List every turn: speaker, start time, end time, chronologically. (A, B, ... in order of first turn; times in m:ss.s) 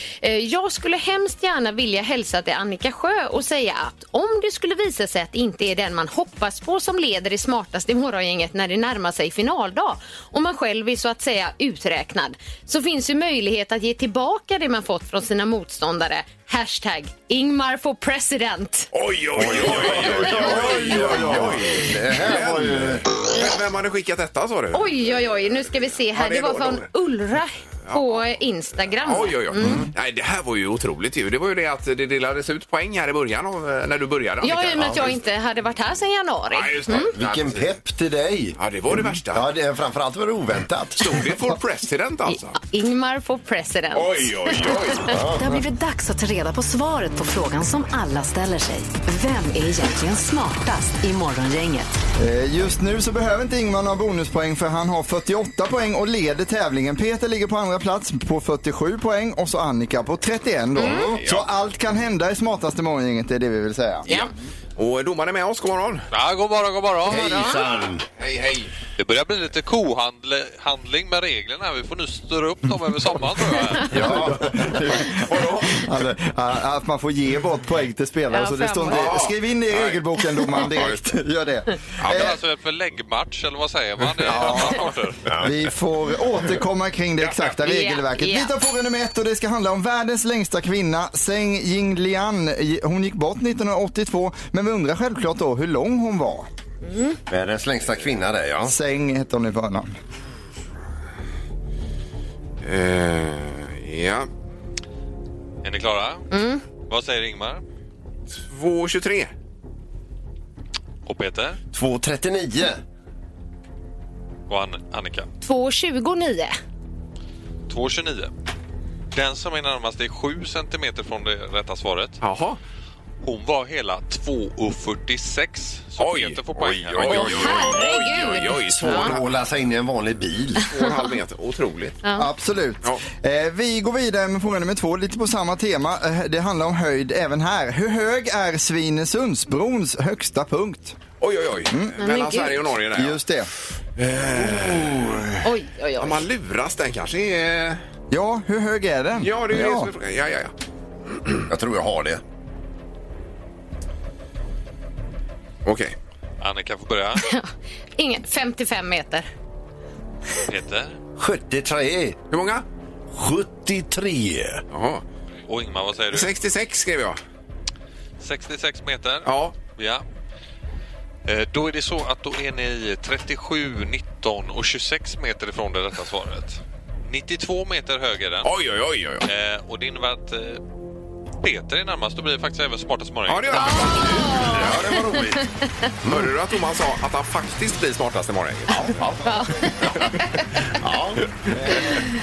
0:00.2-0:18.9 A
0:18.9-0:24.9 B
0:19.4-0:23.1 C
0:20.4-0:20.9 A
0:24.7-0:29.8 A
0:26.1-0:26.9 B
0:27.9-0:28.2 B
0:29.0-0:35.2 B
0:29.6-0:29.9 C
0:34.4-0:37.1 A
0:36.5-0:37.7 B
0:36.9-0:41.3 C
0:38.6-0:39.4 B
0:41.0-0:42.6 B
0:42.3-0:44.8 A
0:43.9-0:45.2 B
0:45.1-0:45.6 C
0:45.3-0:52.0 D
0:52.2-1:04.1 E
1:00.8-1:01.0 A
1:00.8-1:01.2 C
1:01.2-1:01.5 B
1:04.1-1:06.0 B
1:06.1-1:07.6 F
1:07.1-1:08.1 C
1:07.1-1:07.6 A
1:08.2-1:08.7 B
1:09.0-1:14.0 F
1:13.9-1:14.9 C
1:13.9-1:22.4 E
1:15.2-1:15.8 B
1:18.3-1:19.1 A
1:18.9-1:20.0 B
1:20.6-1:21.0 B
1:22.0-1:22.3 B
1:22.1-1:25.2 F
1:24.3-1:24.8 E
1:25.3-1:25.5 C
1:25.4-1:36.5 E
1:27.2-1:27.6 B
1:27.6-1:28.5 A
1:36.9-1:37.2 A
1:37.3-1:38.7 C
1:38.6-1:39.9 E
1:42.6-1:44.3 B
1:45.6-1:46.3 F
1:46.3-1:46.6 A
1:46.8-1:47.6 F
1:48.5-1:49.3 B
1:51.0-1:51.6 F
1:51.7-1:52.8 C
1:54.5-1:55.3 F
1:55.4-1:56.6 A
1:57.7-1:58.3 F
1:59.1-2:02.2 F
2:02.2-2:02.6 B
2:03.2-2:07.7 F
2:06.0-2:09.2 B
2:06.9-2:07.4 C
2:07.1-2:09.1 A
2:08.8-2:10.6 C
2:10.7-2:12.0 B
2:12.2-2:21.0 E
2:21.2-2:23.2 B
2:21.7-2:21.9 E
2:22.0-2:22.6 A
2:22.9-2:23.5 E
2:24.0-2:25.4 B
2:25.4-2:26.2 A
2:26.0-2:27.8 B
2:28.1-2:29.9 E
2:29.2-2:30.5 B
2:31.2-2:31.4 B
2:31.5-2:32.2 C
2:35.6-2:35.9 B
2:36.4-2:37.2 F
2:37.2-2:39.3 A
2:40.5-2:41.0 F
2:41.2-2:42.2 C
2:42.3-2:42.6 B
2:43.1-2:44.6 C
2:44.7-2:45.0 B
2:45.5-2:46.3 F
2:46.1-2:47.2 B
2:48.2-2:50.0 F
2:49.3-2:49.6 B
2:51.3-2:58.5 F
2:58.4-2:59.3 B
2:59.2-3:00.6 F
3:01.4-3:04.0 F
3:03.3-3:04.7 B
3:03.6-3:05.6 A
3:04.3-3:05.4 C
3:06.0-3:06.3 C
3:06.1-3:09.2 B
3:09.2-3:10.5 A
3:09.8-3:10.1 C
3:10.8-3:11.2 C
3:11.5-3:12.0 E